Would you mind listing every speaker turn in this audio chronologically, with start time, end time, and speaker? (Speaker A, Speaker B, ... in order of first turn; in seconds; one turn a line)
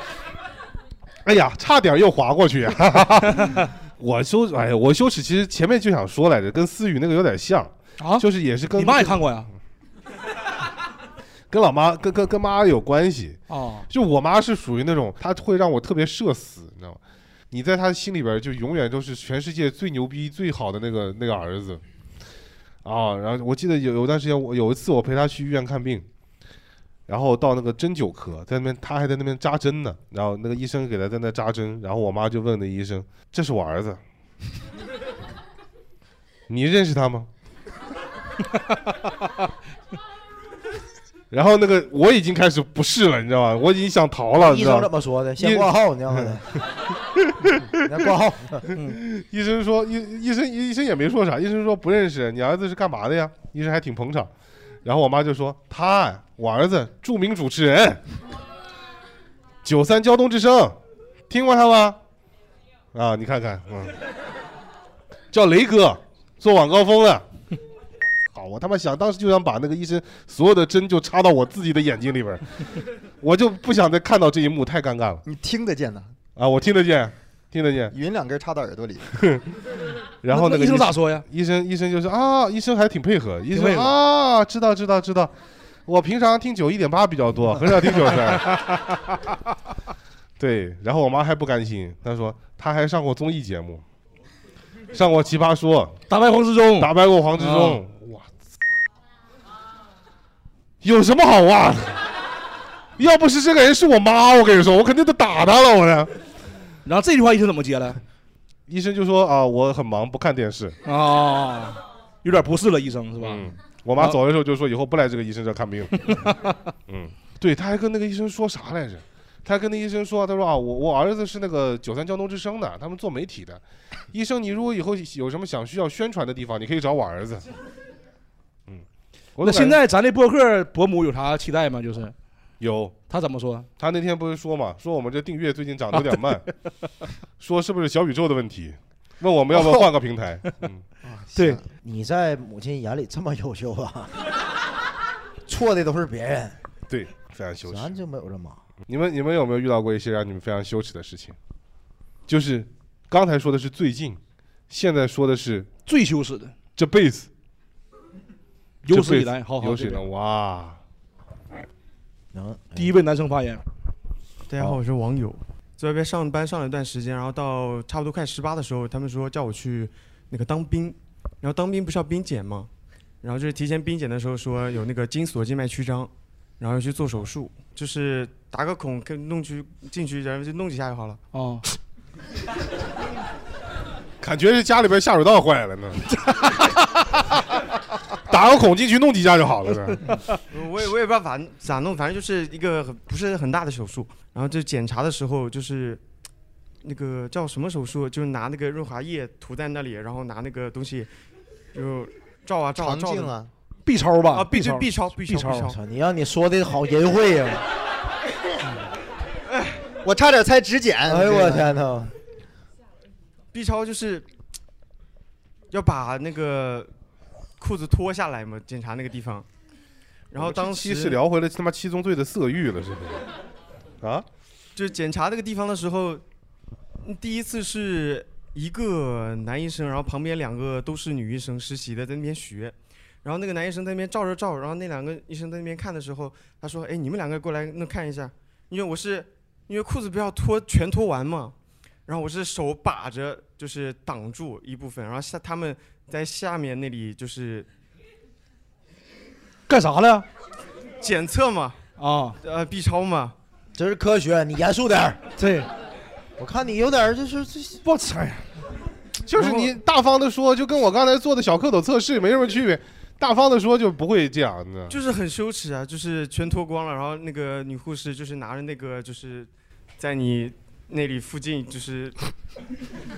Speaker A: 1.2-9.3
Speaker B: 3.3-3.7
Speaker B: 8.0-9.5
Speaker A: 11.5-17.0
Speaker B: 13.5-13.9
Speaker A: 17.5-21.8
Speaker A: 22.8-26.1
Speaker A: 27.1-34.0
Speaker A: 36.5-37.3
Speaker A: 41.3-46.4
Speaker C: 44.4-46.5
Speaker C: 47.8-48.7
Speaker B: 48.7-49.0
Speaker A: 48.9-54.3
Speaker A: 54.9-58.0
Speaker A: 59.6-60.8
Speaker A: 61.3-62.0
Speaker A: 62.9-64.0
Speaker A: 65.3-67.2
Speaker A: 68.3-72.5
Speaker A: 73.2-75.2
Speaker D: 75.2-76.1
Speaker A: 76.4-77.9
Speaker D: 77.9-79.1
Speaker A: 79.2-79.4
Speaker A: 80.2-85.3
Speaker B: 80.3-81.2
Speaker B: 83.5-83.9
Speaker A: 85.9-88.7
Speaker B: 87.9-88.7
Speaker A: 90.4-93.8
Speaker A: 94.9-96.0
Speaker B: 96.1-97.8
Speaker A: 96.8-98.3
Speaker A: 100.8-102.0
Speaker A: 103.0-106.1
Speaker B: 106.8-108.0
Speaker A: 108.7-110.8
Speaker B: 110.8-114.2
Speaker A: 113.2-116.1
Speaker B: 116.1-116.4
Speaker A: 116.9-127.5
Speaker A: 129.4-129.8
Speaker B: 129.4-132.2
Speaker A: 132.6-133.0
Speaker B: 133.1-133.7
Speaker A: 133.8-136.5
Speaker A: 137.4-140.8
Speaker B: 139.6-139.8
Speaker D: 141.1-141.6
Speaker B: 141.3-141.6
Speaker C: 141.8-144.1
Speaker C: 145.5-146.6
Speaker A: 146.9-147.9
Speaker C: 147.7-148.6
Speaker A: 148.9-151.3
Speaker A: 152.3-154.2
Speaker A: 154.7-155.7
Speaker B: 155.9-156.5
Speaker A: 156.8-157.3
Speaker B: 158.8-160.0
Speaker A: 158.9-160.8
Speaker C: 162.3-162.9
Speaker B: 162.8-163.6
Speaker E: 164.5-172.7
Speaker E: 173.2-181.2
Speaker B: 181.3-181.6
Speaker A: 184.2-186.2
Speaker A: 188.3-190.1
Speaker E: 190.5-196.0
Speaker E: 196.8-201.1
Speaker E: 201.7-203.3
Speaker D: 202.8-203.5
Speaker B: 203.9-205.7
Speaker E: 204.3-205.8
Speaker C: 205.7-207.6
Speaker E: 209.5-209.8
Speaker D: 210.0-211.7
Speaker C: 211.1-212.1
Speaker E: 213.5-214.3
Speaker E: 215.7-216.9
Speaker E: 217.6-219.5
Speaker E: 220.3-221.2
Speaker A: 220.4-223.2
Speaker E: 224.8-226.2
Speaker E: 227.0-241.6
Speaker E: 242.1-247.7
Speaker B: 249.7-250.3
Speaker E: 251.0-251.8
Speaker B: 252.0-252.4
Speaker E: 252.4-253.3
Speaker C: 253.8-255.3
Speaker B: 255.4-255.7
Speaker C: 256.4-257.8
Speaker B: 257.9-258.5
Speaker A: 259.3-265.0
Speaker B: 259.4-259.7
Speaker E: 264.9-272.2